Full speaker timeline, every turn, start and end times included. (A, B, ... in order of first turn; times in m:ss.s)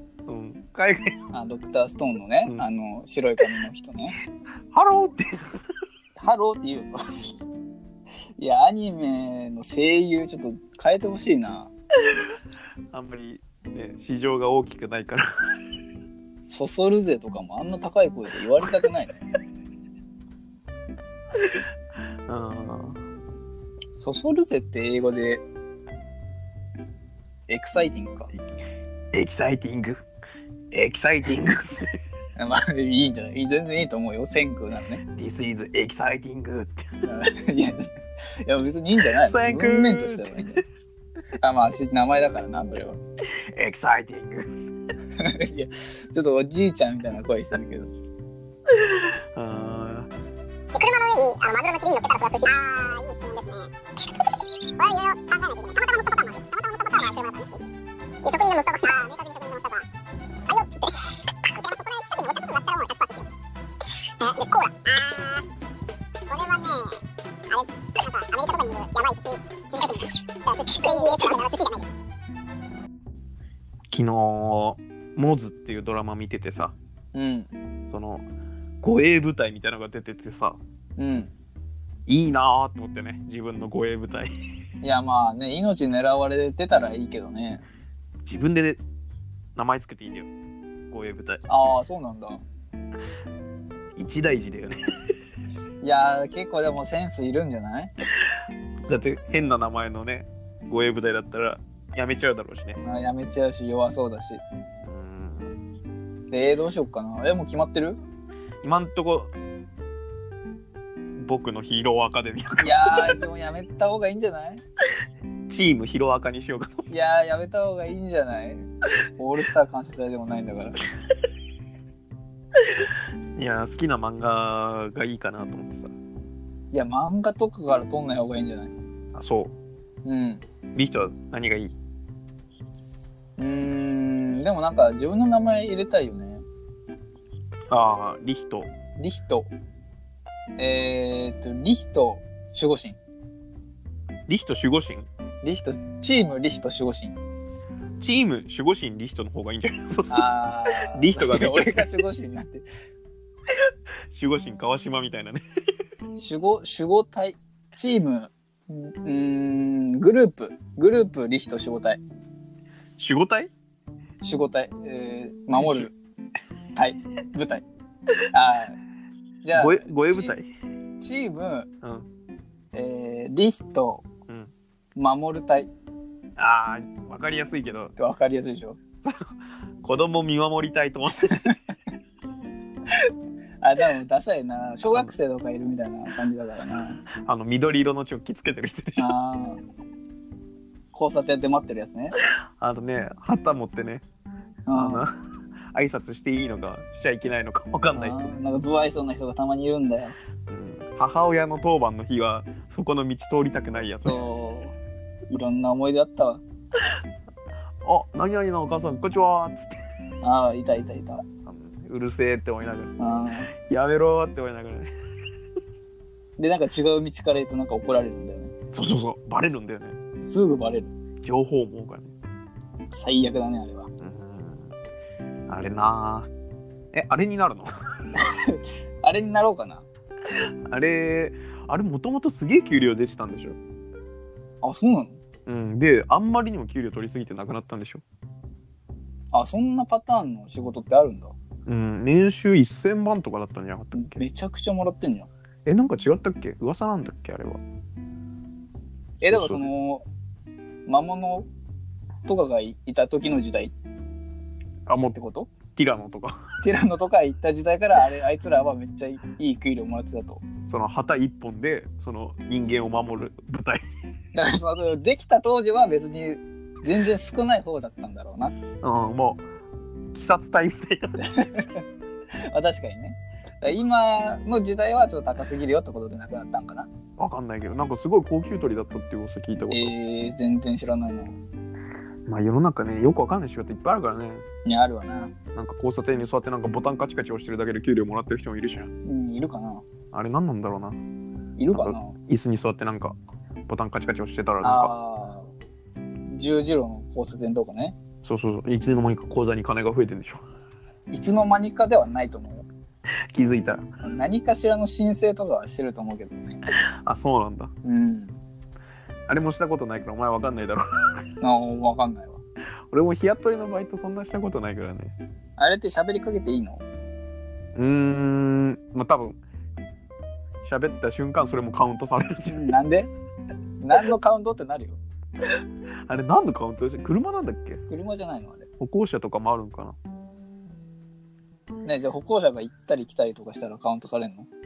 0:00.2-0:01.1 A
0:01.3-0:04.2 B
0:04.7-0:05.5 A
0:06.2-0:07.3 B
0:08.4-0:11.7 B
0:12.9-0:15.3 A
0:16.5-0:19.2 B
0:21.4-0:21.6 A
0:22.3-0:23.0 A
0:24.0-0:25.4 B
0:27.5-0:28.3 B
0:29.1-0:30.0 A
0:30.7-0:31.9 A
0:32.4-0:35.0 B
0:35.0-0:37.0 A
0:37.0-0:37.9 B
0:38.4-0:40.6 B
0:39.0-0:40.6 A
0:41.4-0:43.0 B
0:43.5-0:44.5 A
0:45.2-0:47.9 B
0:48.7-0:50.1 A
0:50.7-0:53.7 C
0:54.6-0:57.6 C
0:58.2-0:59.8 C
1:00.5-1:03.2 C
1:04.2-1:05.4 C
1:06.3-1:11.8 C
1:10.8-1:11.2 B
1:13.9-1:16.8 A
1:17.1-1:17.5 B
1:17.9-1:18.2 A
1:18.8-1:20.6 A
1:21.0-1:21.3 B
1:22.1-1:24.3 A
1:24.8-1:27.6 B
1:28.2-1:28.8 A
1:29.6-1:30.3 A
1:30.9-1:31.4 A
1:31.5-1:32.4 B
1:34.0-1:34.8 A
1:35.8-1:37.9 B
1:38.9-1:42.8 A
1:42.8-1:44.4 B
1:44.8-1:45.5 A
1:46.3-1:48.0 B
1:48.6-1:49.3 A
1:51.2-1:53.2 A
1:52.6-1:54.6 B
1:55.5-1:56.9 A
1:56.9-2:00.8 B
2:02.6-2:05.9 A
2:06.7-2:08.7 B
2:09.1-2:09.5 A
2:10.0-2:10.4 B
2:10.7-2:11.7 A
2:13.4-2:16.4 B
2:17.7-2:18.7 A
2:19.0-2:19.5 B
2:20.6-2:23.0 B
2:24.3-2:25.1 A
2:25.4-2:27.2 B
2:28.0-2:30.3 A
2:30.1-2:32.6 B
2:30.9-2:32.0 A
2:33.5-2:35.4 A
2:36.2-2:42.0 B
2:43.0-2:43.5 A
2:44.2-2:45.9 B
2:45.5-2:45.9 A
2:46.7-2:47.6 B
2:48.3-2:48.8 B
2:49.4-2:50.3 B
2:49.5-2:50.5 A
2:51.0-2:51.7 B
2:51.8-2:52.1 A
2:52.7-2:54.0 B
2:54.9-2:55.7 B
2:56.4-2:57.9 A
2:58.0-2:58.8 B
2:59.0-3:01.3 A
3:01.3-3:01.6 B
3:03.6-3:07.0 B
3:07.2-3:09.1 A
3:09.0-3:09.6 B
3:10.9-3:12.1 B
3:12.6-3:14.0 A
3:14.7-3:15.0 B
3:14.7-3:15.2 A
3:15.7-3:18.4 A
3:17.9-3:20.2 B
3:20.5-3:24.2 A
3:24.0-3:24.8 B
3:25.3-3:26.4 B
3:27.8-3:29.8 A
3:30.2-3:31.2 B
3:31.4-3:34.9 A
3:33.0-3:33.5 B
3:36.4-3:38.5 B
3:38.7-3:40.0 A
3:40.2-3:40.9 B
3:41.2-3:42.1 A
3:42.9-3:43.9 B
3:44.0-3:44.7 A
3:45.5-3:46.3 A
3:46.9-3:47.7 A
3:48.2-3:49.8 B
3:50.7-3:53.6 A
3:54.6-3:55.2 B
3:55.4-3:58.0 A
3:59.3-4:01.3 B
4:01.6-4:04.2 A
4:03.9-4:05.3 B
4:05.6-4:07.6 A
4:09.2-4:10.1 B
4:09.3-4:09.6 A
4:10.8-4:11.5 B
4:12.3-4:13.7 B
4:14.9-4:16.4 A
4:15.1-4:15.5 B
4:16.6-4:20.4 B
4:20.7-4:23.8 A
4:24.3-4:28.5 B
4:28.8-4:29.4 A
4:30.1-4:31.2 A
4:31.2-4:31.8 B
4:32.5-4:36.9 B
4:37.2-4:39.9 A
4:39.7-4:41.4 B
4:42.3-4:44.4 A
4:44.6-4:45.3 B
4:45.5-4:48.9 A
4:49.0-4:49.8 B
4:50.1-4:51.0 A
4:51.6-4:52.2 B
4:51.7-4:53.2 A
4:53.7-4:54.9 A
4:54.6-4:55.5 B
4:56.2-4:58.0 B
4:58.2-5:00.4 A
5:01.1-5:02.7 B
5:03.3-5:03.8 A
5:04.0-5:06.6 B
5:07.0-5:07.7 A
5:07.8-5:08.4 B
5:09.3-5:10.9 A
5:11.4-5:12.4 B
5:12.9-5:15.1 A
5:15.6-5:16.8 B
5:17.7-5:19.4 A
5:20.6-5:22.7 A
5:22.5-5:23.1 B
5:23.8-5:25.0 B
5:26.1-5:27.8 A
5:27.9-5:28.7 B
5:28.8-5:30.0 A
5:31.8-5:34.5 B